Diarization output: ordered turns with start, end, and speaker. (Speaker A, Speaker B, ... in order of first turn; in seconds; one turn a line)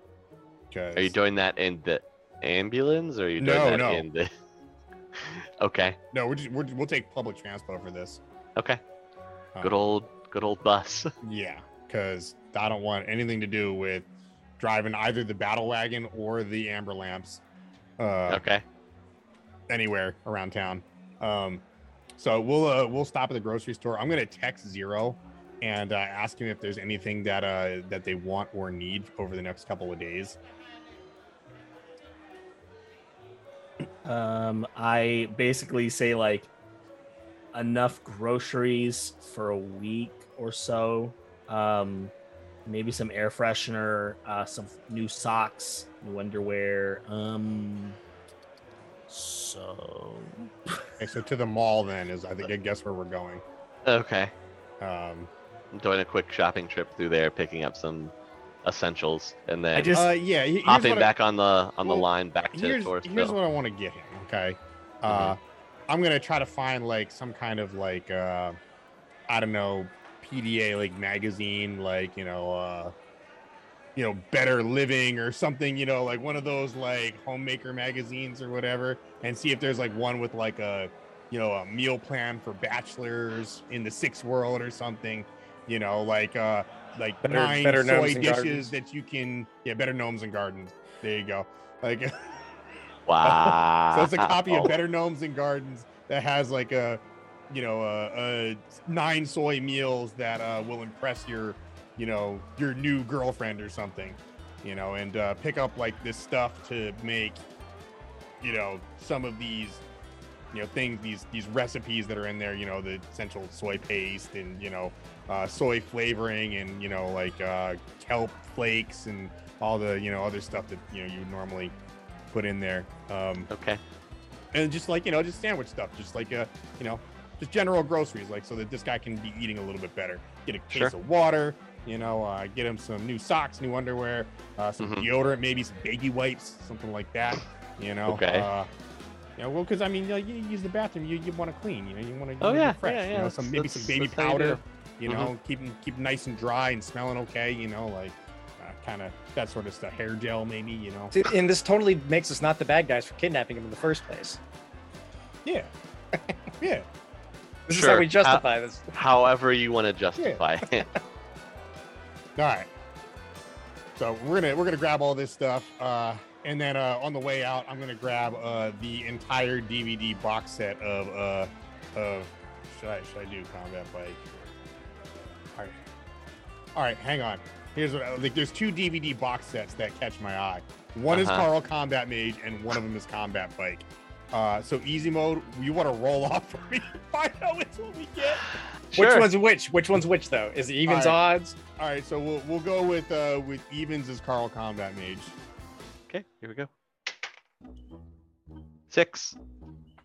Speaker A: 0.7-1.1
Speaker B: 0.9-4.3
Speaker A: 3.4-4.0
Speaker B: 5.2-6.0
Speaker A: 6.1-8.2
Speaker B: 9.6-11.1
Speaker A: 11.2-14.1
Speaker A: 14.6-17.4
Speaker A: 18.0-18.4
Speaker B: 18.3-18.6
Speaker A: 19.7-21.6
Speaker A: 22.2-30.4
Speaker C: 34.0-36.5
Speaker C: 37.5-42.1
Speaker C: 42.6-48.0
Speaker C: 49.1-50.9
Speaker A: 51.0-53.4
Speaker B: 53.8-54.3
Speaker A: 54.8-55.3
Speaker B: 55.7-60.0
Speaker C: 59.7-60.1
Speaker A: 59.9-61.1
Speaker B: 60.6-63.4
Speaker A: 61.8-68.6
Speaker B: 65.1-65.3
Speaker A: 69.3-72.9
Speaker A: 74.0-92.2
Speaker D: 87.2-88.7
Speaker B: 93.1-94.8
Speaker A: 93.2-107.4
Speaker A: 108.4-109.8
Speaker A: 110.5-121.7
Speaker A: 122.3-123.5
Speaker B: 123.5-123.8
Speaker A: 124.5-138.7
Speaker B: 134.8-135.1
Speaker B: 138.1-138.5
Speaker A: 139.4-151.1
Speaker B: 142.4-145.3
Speaker D: 151.1-154.4
Speaker A: 155.4-156.9
Speaker D: 157.7-158.9
Speaker B: 157.7-160.9
Speaker A: 162.3-162.7
Speaker A: 163.9-174.5
Speaker A: 176.7-188.5
Speaker B: 181.1-181.4
Speaker B: 188.9-189.3
Speaker D: 188.9-191.6
Speaker A: 190.8-191.2
Speaker A: 191.8-195.3
Speaker B: 196.1-196.7
Speaker B: 198.9-199.3